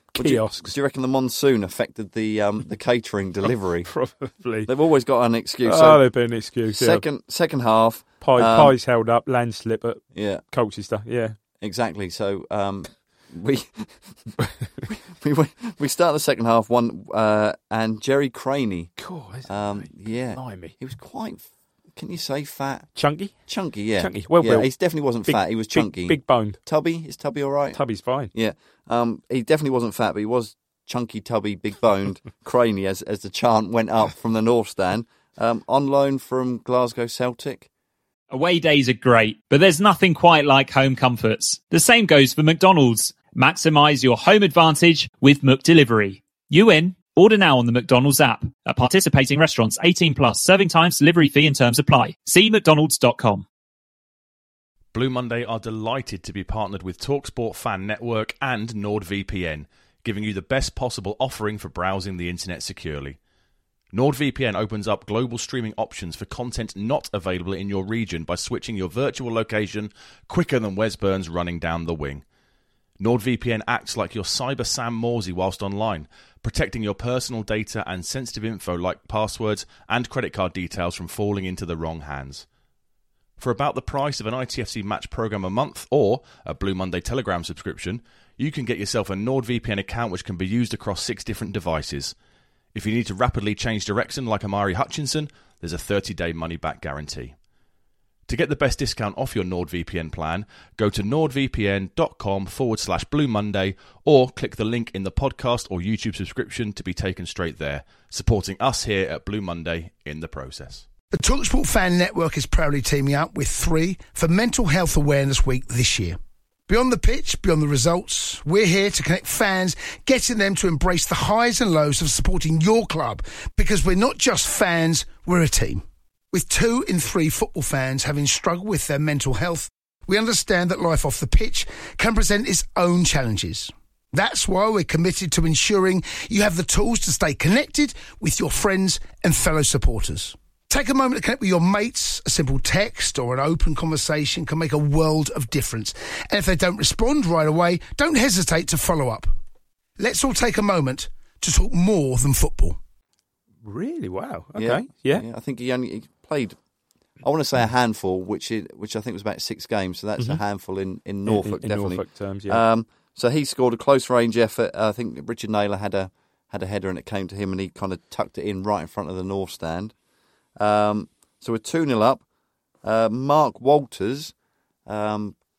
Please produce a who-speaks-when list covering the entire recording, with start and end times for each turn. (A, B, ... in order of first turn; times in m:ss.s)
0:00.1-0:00.7 A
0:00.2-0:03.9 B
0:03.8-0:04.7 A
0:04.6-0:06.0 B
0:05.6-0:07.0 A
0:06.7-0:08.7 B
0:08.2-0:11.4 A
0:10.1-0:10.4 B
0:11.6-0:14.3 B
0:14.8-0:18.9 B
0:19.0-0:20.7 A
0:19.4-0:22.9 B
0:23.0-0:23.3 A
0:23.5-0:27.8 B
0:24.0-0:24.7 A
0:25.2-0:26.6 A
0:27.7-0:28.3 A
0:28.3-0:37.7 B
0:38.3-0:53.4 C
0:54.9-1:03.2 D
1:03.9-1:12.2 D
1:13.0-1:22.4 D
1:23.4-1:32.1 D
1:32.7-1:37.3 D
1:38.3-1:50.8 D
1:51.1-2:29.3 E
2:30.0-2:32.8 E
2:33.6-2:35.2 A
2:34.6-2:36.6 B
2:37.2-2:49.9 B
2:41.2-2:42.6 A
2:50.6-2:52.2 B
2:52.8-2:54.3 B
2:54.9-2:55.4 B